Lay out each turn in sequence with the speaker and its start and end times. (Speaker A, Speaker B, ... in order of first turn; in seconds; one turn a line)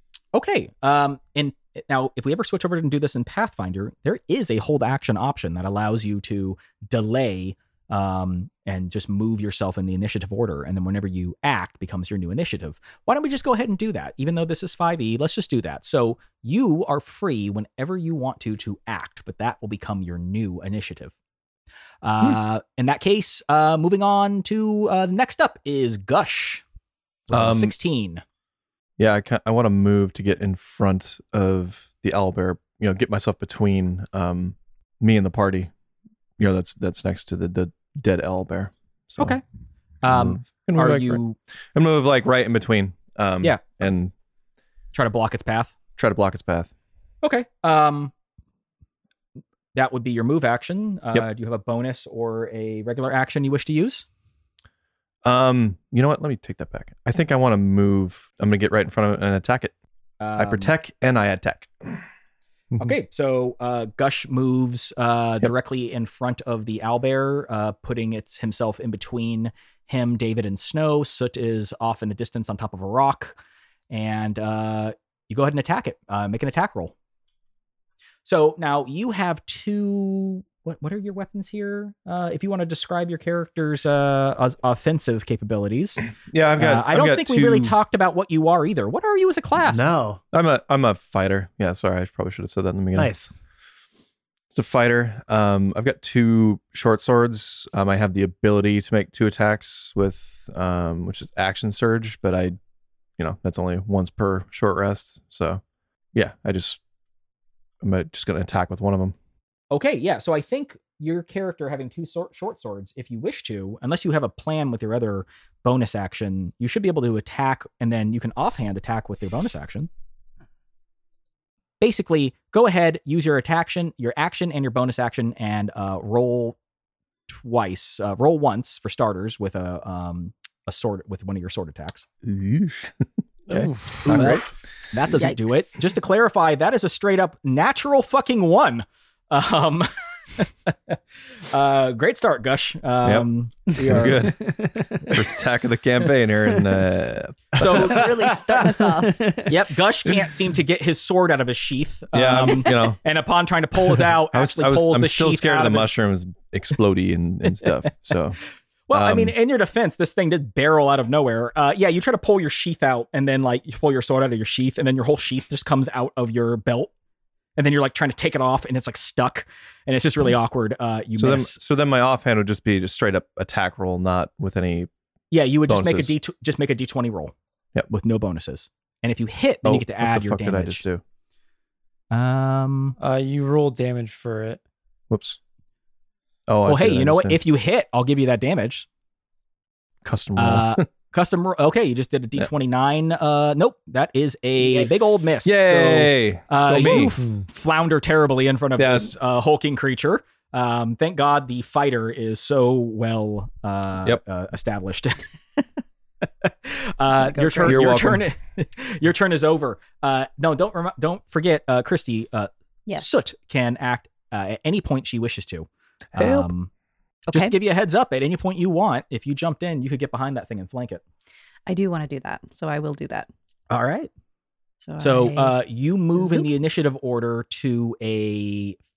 Speaker A: 0.3-21.1
Speaker A: 22.0-26.6
Speaker A: 27.3-28.2
Speaker B: 27.3-27.7
Speaker B: 29.0-35.7
Speaker B: 36.4-39.4
Speaker A: 40.0-41.4
Speaker B: 40.1-41.2
Speaker B: 41.8-44.1
Speaker A: 44.9-45.8
Speaker B: 46.0-46.7
Speaker A: 47.2-48.1
Speaker A: 49.8-54.0
Speaker B: 55.2-59.7
Speaker A: 60.2-60.7
Speaker B: 60.4-62.0
Speaker A: 62.8-73.4
Speaker A: 73.9-76.9
Speaker A: 78.2-89.9
Speaker B: 86.3-87.7
Speaker C: 89.7-90.2
Speaker B: 90.3-93.1
Speaker C: 93.0-93.3
Speaker B: 94.5-102.6
Speaker B: 103.2-105.6
Speaker B: 106.2-106.8
Speaker B: 107.8-109.2
Speaker A: 109.7-119.9
Speaker A: 121.8-126.6
Speaker A: 127.3-132.1
Speaker B: 132.2-134.5
Speaker D: 133.5-134.4
Speaker A: 134.1-141.0
Speaker E: 135.2-135.7
Speaker A: 141.5-144.2
Speaker B: 143.0-144.5
Speaker D: 144.2-145.2
Speaker B: 145.0-148.1
Speaker A: 147.6-148.0
Speaker E: 147.6-149.3
Speaker C: 147.8-148.8
Speaker D: 149.0-149.5
Speaker A: 149.5-155.9
Speaker B: 152.1-153.0
Speaker B: 154.3-158.4
Speaker A: 157.4-157.9
Speaker A: 158.9-166.9
Speaker B: 158.9-159.3
Speaker A: 167.6-171.6
Speaker B: 171.2-174.9
Speaker A: 175.3-177.3
Speaker B: 175.7-176.2
Speaker A: 177.9-180.8
Speaker B: 179.7-181.0
Speaker A: 182.1-183.0
Speaker D: 183.0-184.6
Speaker B: 185.1-185.4
Speaker B: 186.5-187.4
Speaker A: 186.7-188.9
Speaker B: 190.1-190.8
Speaker A: 190.4-205.2
Speaker B: 195.4-197.2
Speaker D: 197.1-197.4
Speaker B: 198.8-199.1
Speaker A: 206.4-216.7
Speaker E: 207.0-208.0
Speaker B: 207.6-208.3
Speaker E: 217.3-217.6
Speaker A: 217.3-221.0
Speaker E: 221.7-223.3
Speaker A: 223.7-224.1
Speaker E: 224.8-225.6
Speaker A: 225.0-228.8
Speaker E: 226.2-226.5